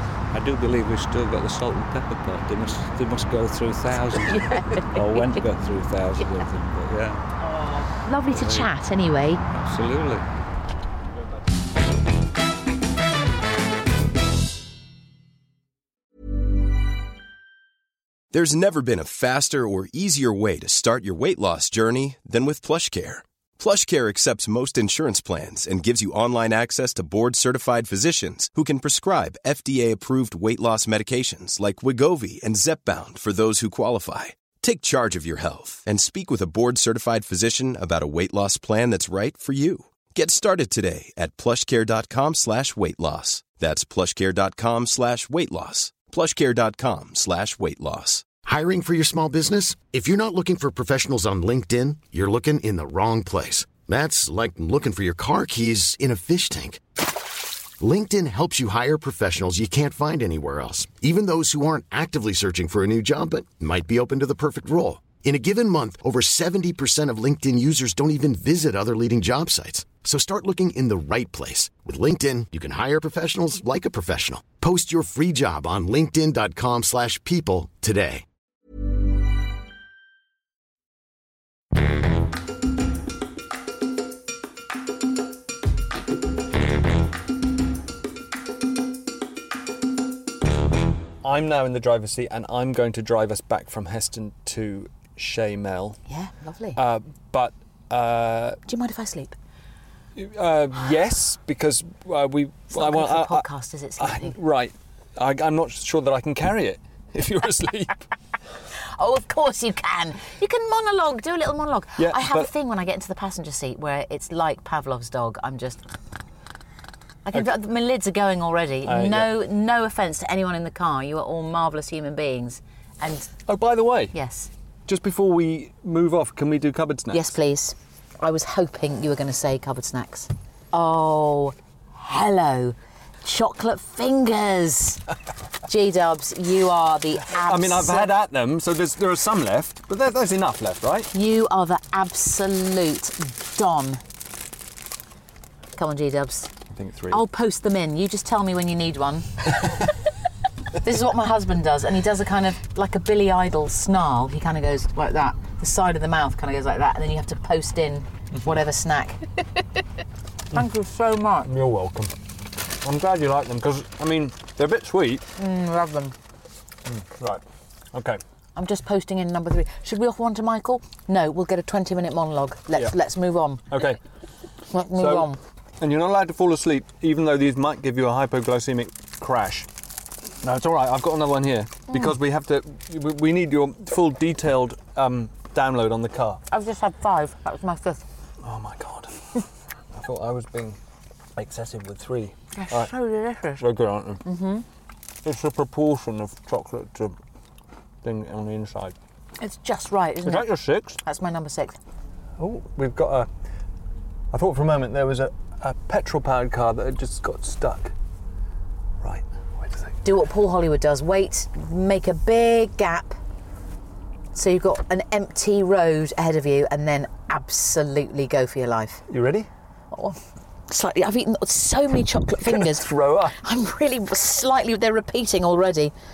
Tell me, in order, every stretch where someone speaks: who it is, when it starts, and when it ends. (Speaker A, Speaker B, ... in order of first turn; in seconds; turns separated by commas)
Speaker A: 0.3-7.2, Speaker B: 4.1-5.4, Speaker B: 7.6-9.4, Speaker A: 8.3-8.7, Speaker A: 9.5-10.2, Speaker C: 18.3-48.3, Speaker D: 48.4-56.8, Speaker D: 57.8-78.2, Speaker E: 91.2-96.0, Speaker B: 96.1-96.8, Speaker E: 96.8-98.6, Speaker B: 98.7-99.4, Speaker E: 100.2-103.4, Speaker B: 102.7-104.3, Speaker E: 104.0-108.1, Speaker B: 108.9-115.8, Speaker E: 112.0-112.5, Speaker B: 117.2-123.3, Speaker E: 118.8-119.3, Speaker E: 123.5-124.1, Speaker B: 124.1-124.5, Speaker E: 124.9-127.3, Speaker B: 127.1-135.0, Speaker B: 135.6-138.1, Speaker E: 137.4-141.1, Speaker B: 141.1-144.0, Speaker B: 145.7-146.5, Speaker E: 146.7-147.2, Speaker B: 147.1-149.9, Speaker B: 150.8-159.3, Speaker B: 160.5-161.5, Speaker E: 161.4-162.1, Speaker E: 162.8-165.3, Speaker B: 165.4-166.1, Speaker E: 166.9-167.4, Speaker E: 167.9-168.2, Speaker B: 168.6-173.8, Speaker E: 173.7-174.0, Speaker B: 174.7-175.4, Speaker E: 175.0-179.7, Speaker E: 180.4-186.4, Speaker B: 186.5-188.0, Speaker E: 188.4-190.8, Speaker E: 191.3-192.9, Speaker B: 192.5-193.7, Speaker E: 193.6-194.2, Speaker B: 194.2-194.6, Speaker E: 195.2-197.2, Speaker E: 198.0-198.9, Speaker B: 199.4-201.8, Speaker E: 200.2-200.9, Speaker E: 202.4-203.3, Speaker E: 204.3-207.9, Speaker E: 209.0-210.0, Speaker B: 210.0-213.2, Speaker B: 214.3-219.0, Speaker E: 219.1-219.5, Speaker B: 219.9-220.2, Speaker B: 220.7-225.9, Speaker E: 222.5-223.4